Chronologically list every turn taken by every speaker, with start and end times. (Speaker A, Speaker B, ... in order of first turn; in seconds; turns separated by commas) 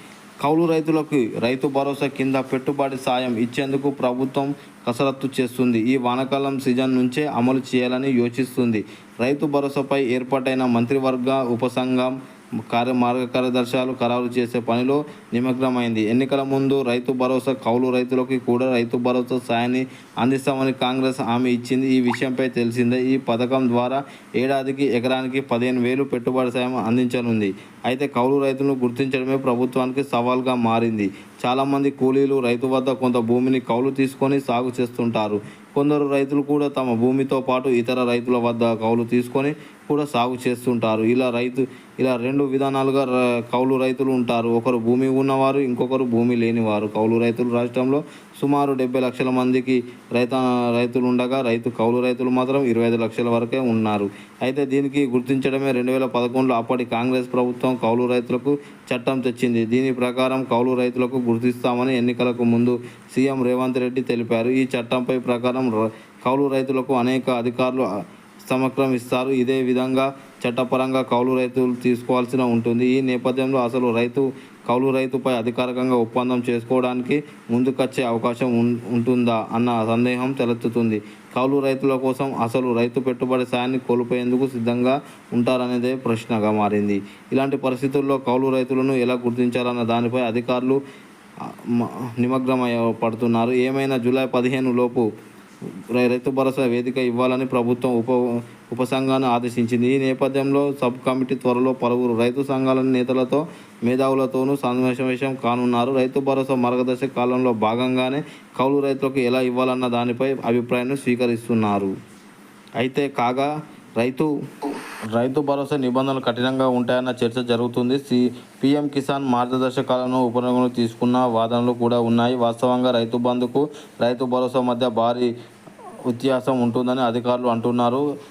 Speaker A: 0.4-67.9, Speaker A: 68.5-90.8, Speaker A: 91.4-95.1, Speaker A: 95.9-111.9, Speaker A: 112.8-114.3, Speaker A: 115.1-125.3, Speaker A: 126.1-128.0